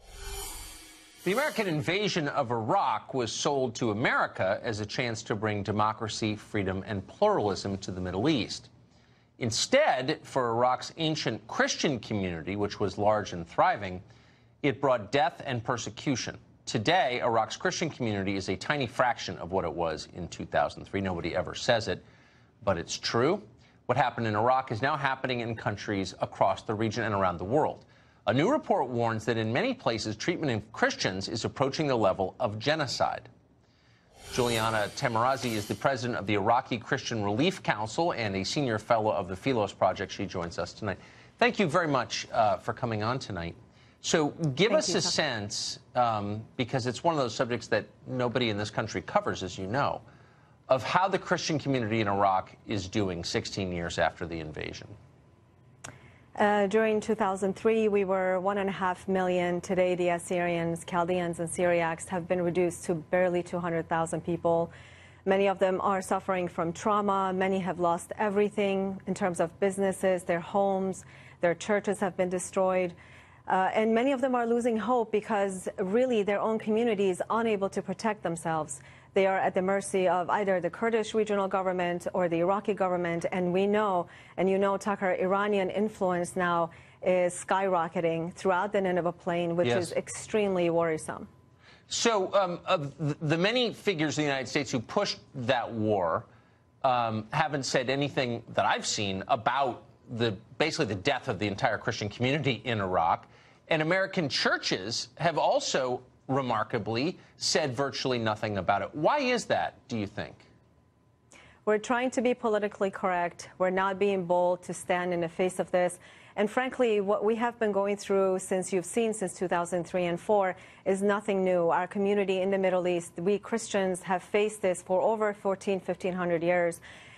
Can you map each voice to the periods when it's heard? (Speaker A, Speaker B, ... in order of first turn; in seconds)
Speaker A: 1.2-8.7, 9.4-14.0, 14.6-22.0, 22.6-33.3, 34.3-50.0, 50.7-54.9, 89.6-89.9, 91.9-96.3, 96.8-110.5
Speaker B: 44.7-45.1, 56.4-64.7, 65.2-73.0, 73.5-91.3, 111.7-126.8